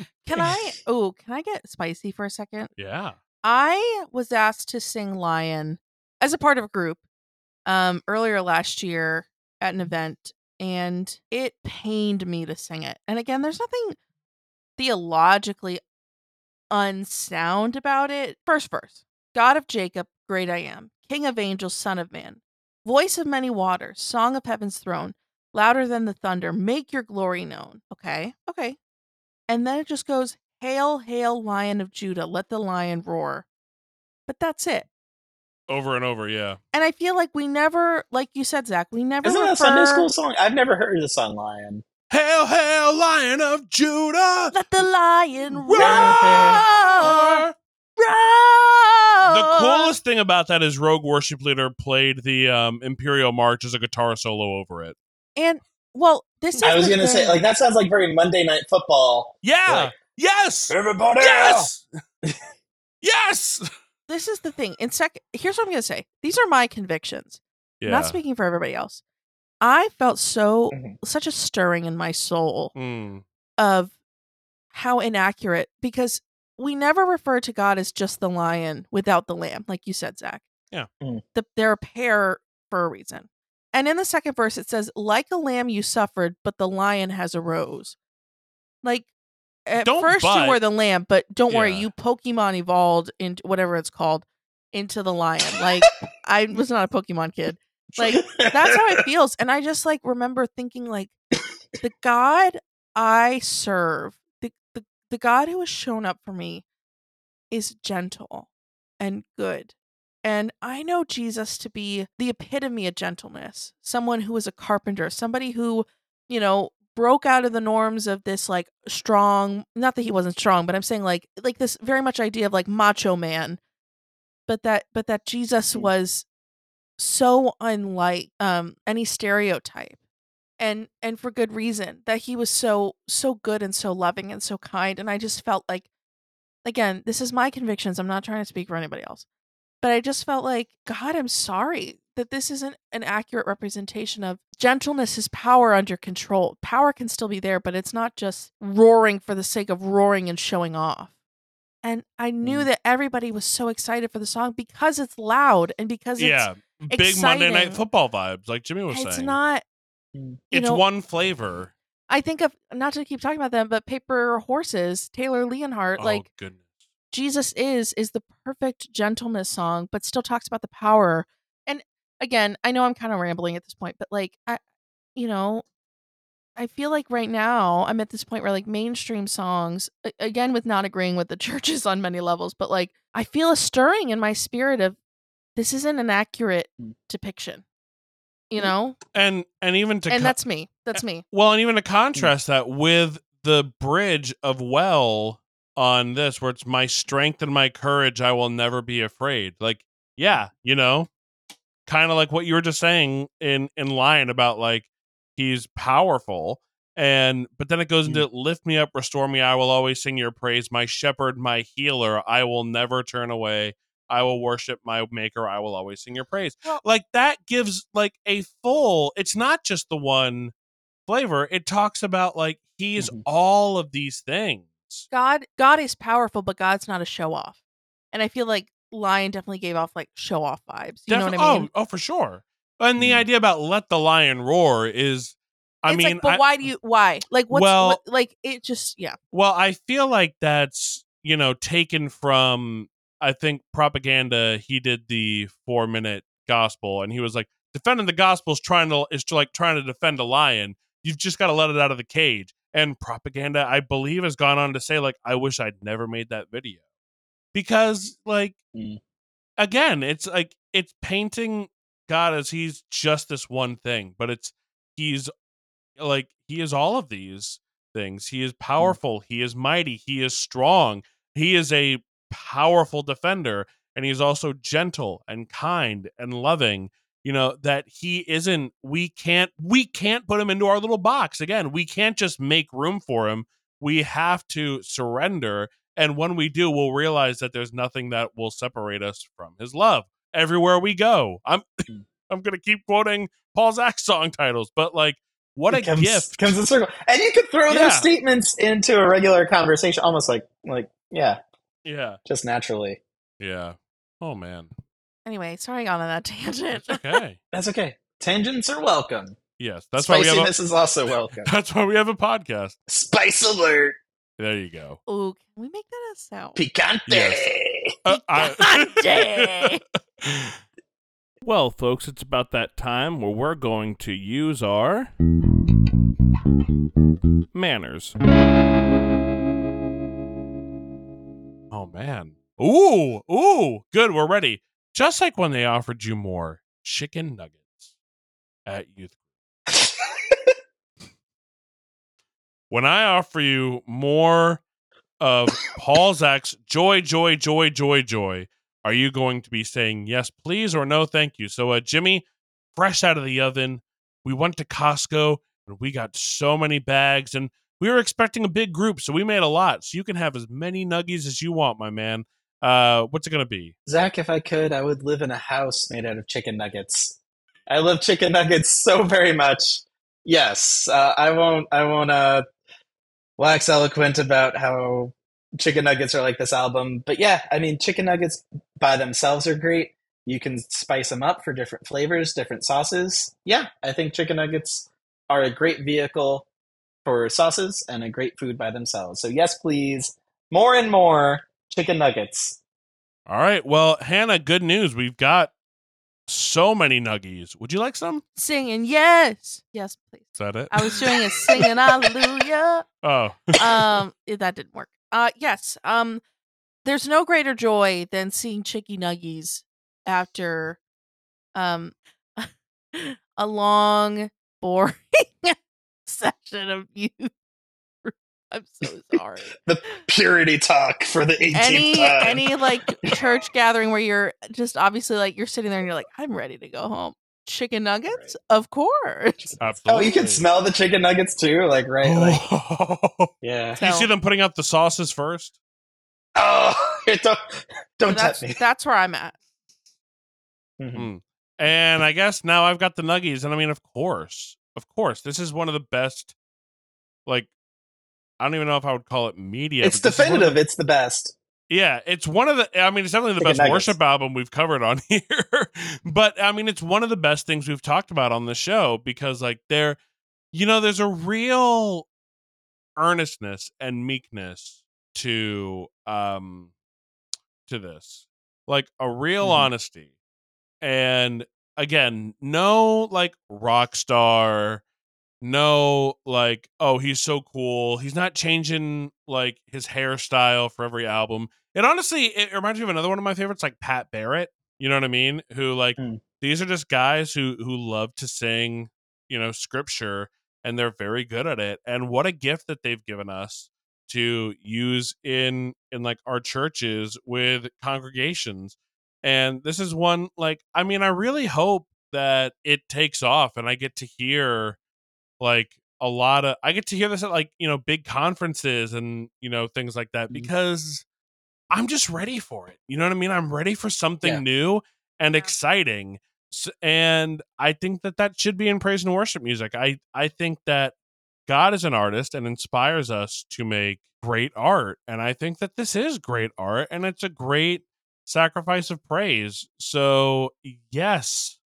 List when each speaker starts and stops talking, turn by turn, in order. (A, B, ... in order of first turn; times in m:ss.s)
0:00.2-0:02.7 A
0:02.8-0:03.2 B
0:03.4-0:07.0 A
0:07.6-0:14.0 A
0:14.8-0:15.8 A
0:16.7-0:28.8 A
0:29.5-0:33.4 A
0:34.3-0:34.9 A
0:35.7-0:36.6 B
0:36.7-0:40.1 A
0:39.2-0:41.8 C
0:42.1-0:44.6 B
0:44.5-0:47.4 A
0:45.6-0:47.5 B
0:45.8-0:46.6 C
0:48.0-0:49.9 A
0:49.2-0:55.0 B
0:55.4-0:57.4 A
0:56.6-0:59.9 C
0:59.4-1:01.8 B
1:00.7-1:01.7 C
1:03.0-1:03.7 B
1:04.1-1:09.0 A
1:07.8-1:08.2 B
1:09.6-1:12.7 A
1:10.7-1:11.0 C
1:12.8-1:13.2 B
1:13.6-1:13.9 A
1:14.7-1:20.4 A
1:21.3-1:28.0 A
1:28.8-1:29.1 A
1:29.6-1:41.1 A
1:29.8-1:30.6 B
1:31.5-1:31.9 B
1:38.0-1:38.6 C
1:41.8-1:46.6 A
1:47.5-1:48.5 A
1:49.0-2:03.6 A
2:04.5-2:06.2 A
2:07.0-2:10.0 A
2:10.6-2:15.9 A
2:16.6-2:19.2 A
2:19.8-2:31.1 A
2:31.8-2:37.8 A
2:32.4-2:32.7 C
2:36.2-2:39.4 B
2:38.9-2:39.6 A
2:40.1-2:40.4 C
2:40.5-2:41.7 B
2:40.5-2:40.8 A
2:42.1-2:46.2 A
2:46.0-2:46.6 B
2:47.1-2:54.6 A
2:55.2-2:55.6 A
2:56.6-3:05.0 A
3:05.6-3:07.6 A
3:08.5-3:09.0 A
3:09.1-3:10.4 B
3:10.1-3:11.2 A
3:11.3-3:21.1 B
3:21.8-3:40.5 B
3:41.1-3:45.0 B
3:43.0-3:43.2 C
3:45.1-3:47.6 A
3:48.1-3:51.7 A
3:51.1-3:56.4 B
3:53.0-3:53.2 C
3:55.9-3:59.2 A
3:57.5-3:58.0 B
3:59.3-4:16.8 B
4:17.5-4:18.6 B
4:18.7-4:19.0 C
4:19.6-4:25.3 B
4:26.0-4:56.5 B
4:55.7-5:01.4 C
4:57.7-4:58.1 B
5:01.8-5:02.2 B
5:02.2-5:03.0 C
5:03.4-5:04.7 B
5:05.2-5:07.2 A
5:06.8-5:07.4 B
5:07.5-5:09.4 C
5:09.6-5:10.5 B
5:10.0-5:11.5 C
5:11.4-5:12.7 B
5:12.9-5:14.0 C
5:14.4-5:15.0 B
5:15.1-5:16.6 A
5:16.6-5:17.9 C
5:17.1-5:17.5 B
5:18.0-5:19.7 B
5:18.1-5:19.8 A
5:20.2-5:20.6 B
5:21.4-5:25.1 B
5:27.5-5:28.2 B
5:31.7-5:37.8 B
5:38.6-5:39.2 B
5:39.7-5:40.5 C
5:42.7-5:44.6 B
5:45.2-5:52.2 B
5:52.7-6:03.7 B
6:03.8-6:12.4 C
6:13.4-6:26.5 C
6:27.0-6:32.6 C
6:33.3-6:35.5 B
6:36.3-6:38.2 B
6:38.4-6:42.8 A
6:40.4-6:41.6 B
6:43.0-6:44.0 B
6:43.6-6:46.2 A
6:46.8-6:50.8 A
6:51.5-6:57.3 A
6:58.0-6:59.6 A
6:59.6-7:02.5 C
7:01.5-7:09.5 A
7:08.1-7:08.3 C
7:09.6-7:10.4 B
7:09.8-7:12.4 C
7:12.0-7:15.5 B
7:13.4-7:13.8 C
7:13.8-7:14.1 A
7:16.4-7:18.6 C
7:18.1-7:19.4 A
7:20.8-7:21.1 C
7:20.9-7:26.3 B
7:28.4-7:30.6 B
7:29.8-7:31.4 C
7:31.7-7:40.0 B
7:33.4-7:33.9 C
7:40.5-7:42.1 B
7:43.0-7:46.7 B
7:47.7-7:50.1 B
7:49.4-7:49.7 C
7:50.8-7:54.8 B
7:55.4-8:24.8 B
8:06.0-8:06.2 C
8:25.4-8:31.0 B
8:31.7-8:40.9 B
8:41.5-8:51.6 B